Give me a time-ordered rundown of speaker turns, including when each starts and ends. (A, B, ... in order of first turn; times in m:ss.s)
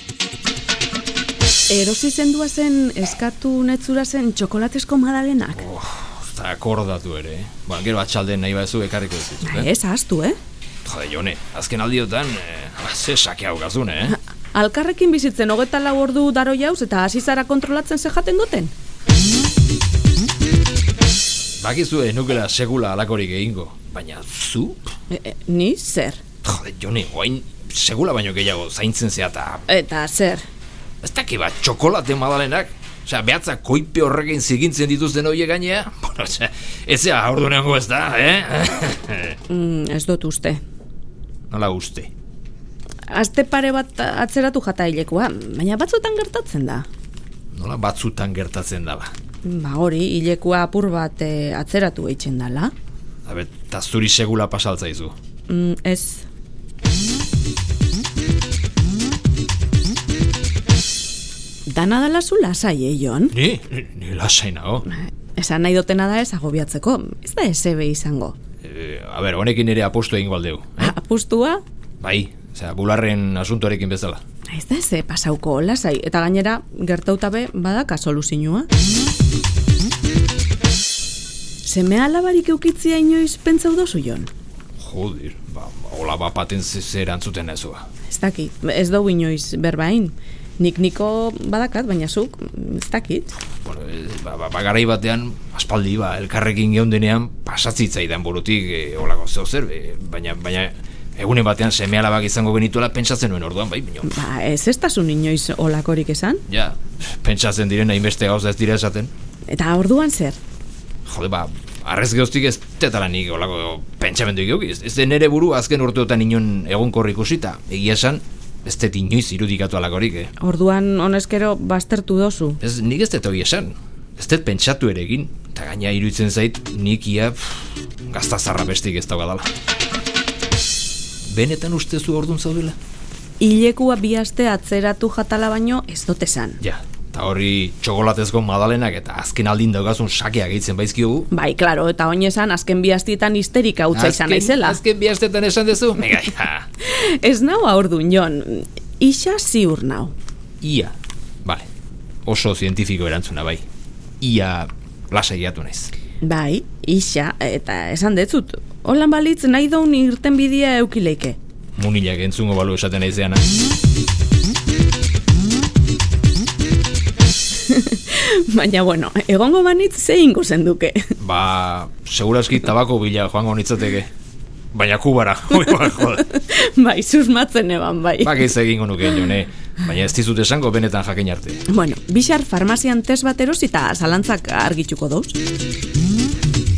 0:01.7-0:05.6 A
0:05.6-0:09.7 B
0:09.4-0:10.4 A
0:10.8-0:14.2 B
0:14.5-0:18.7 A
0:21.6-0:24.8 B
0:25.1-0:26.2 A
0:26.4-0:29.6 B
0:29.7-0:30.4 A
0:31.0-0:39.4 B
0:39.5-0:40.6 A
0:41.5-0:42.1 B
0:43.1-0:46.9 A
0:47.5-0:49.1 B
0:49.4-0:52.7 A
0:53.2-0:55.1 B
0:55.5-0:56.2 A
1:01.6-1:03.3 A
1:03.3-1:04.9 B
1:04.9-1:08.4 A
1:08.6-1:10.9 B
1:10.8-1:11.6 A
1:12.0-1:14.2 B
1:14.5-1:18.7 A
1:21.6-1:24.3 A
1:24.8-1:27.8 B
1:28.0-1:33.3 A
1:33.6-1:44.2 B
1:44.0-1:46.4 A
1:46.5-1:49.1 B
1:49.5-1:50.4 A
1:51.0-2:00.3 B
2:00.4-2:02.6 A
2:02.6-2:09.5 B
2:11.3-2:12.8 B
2:13.4-2:16.6 A
2:16.6-2:21.3 B
2:21.3-2:24.8 A
2:23.9-2:26.7 B
2:26.8-2:30.1 A
2:30.6-2:30.9 B
2:32.2-2:33.6 B
2:34.2-2:35.9 B
2:36.2-2:41.4 A
2:41.8-2:43.4 B
2:47.5-2:51.1 A
2:51.2-2:54.1 B
2:54.7-2:56.3 B
2:56.3-2:58.5 A
2:58.2-3:01.6 B
3:01.7-3:05.4 A